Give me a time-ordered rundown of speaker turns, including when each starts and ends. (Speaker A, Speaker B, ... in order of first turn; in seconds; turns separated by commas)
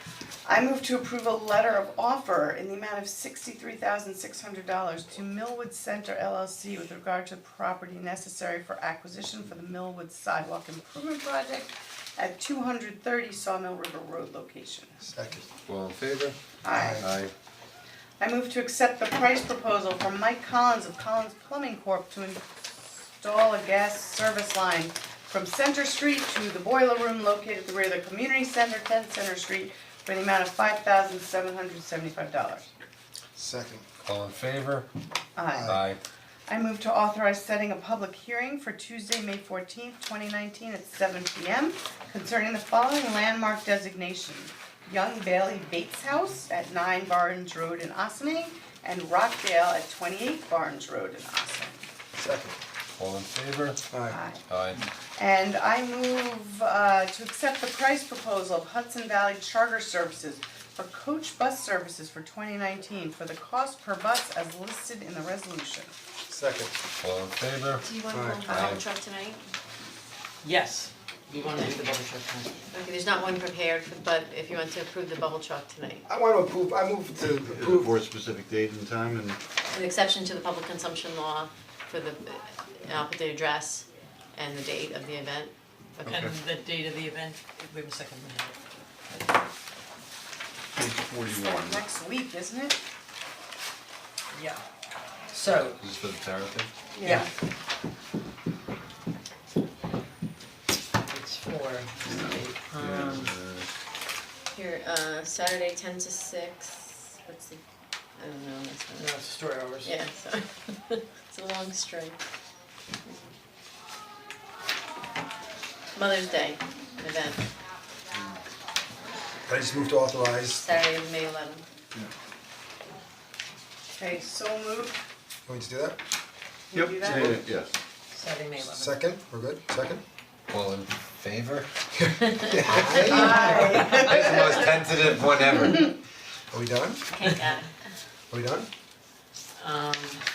Speaker A: 0.4-14.9, Speaker B: 15.0-15.4, Speaker C: 15.7-16.4, Speaker A: 16.6-17.0, Speaker B: 16.7-17.1, Speaker C: 16.9-17.3, Speaker A: 18.2-32.7, Speaker B: 33.3-33.8, Speaker C: 34.0-34.9, Speaker A: 35.4-35.7, Speaker B: 35.5-35.8, Speaker C: 35.6-36.0, Speaker A: 36.5-51.8, Speaker B: 52.2-52.6, Speaker C: 53.0-53.8, Speaker B: 53.9-54.2, Speaker A: 54.1-54.4, Speaker C: 54.5-54.8, Speaker A: 55.1-65.9, Speaker B: 66.3-66.7, Speaker C: 67.0-67.8, Speaker D: 67.8-69.4, Speaker B: 68.1-68.6, Speaker C: 68.5-68.8, Speaker E: 70.4-72.6, Speaker D: 72.7-76.0, Speaker B: 76.1-77.9, Speaker F: 77.5-79.4, Speaker D: 79.7-86.2, Speaker F: 86.0-86.3, Speaker E: 86.0-88.6, Speaker F: 90.7-91.8, Speaker A: 91.4-92.8, Speaker E: 94.3-94.6, Speaker E: 95.3-95.8, Speaker C: 95.6-96.7, Speaker A: 97.0-97.3, Speaker E: 97.0-97.3, Speaker E: 101.0-103.3, Speaker F: 102.0-103.7, Speaker D: 104.5-107.6, Speaker D: 108.2-109.1, Speaker E: 108.9-109.9, Speaker D: 109.8-112.2, Speaker D: 115.9-117.4, Speaker B: 119.5-120.6, Speaker D: 120.5-121.6, Speaker A: 123.9-125.0, Speaker B: 125.5-126.0, Speaker A: 126.7-127.4, Speaker F: 126.7-127.7, Speaker E: 128.1-128.9, Speaker B: 128.6-130.0, Speaker C: 130.5-131.7, Speaker B: 131.9-133.8, Speaker D: 132.7-134.6, Speaker C: 132.7-135.9, Speaker A: 133.0-134.6, Speaker B: 136.5-137.1, Speaker D: 137.1-137.7, Speaker B: 138.3-138.7, Speaker D: 139.6-140.2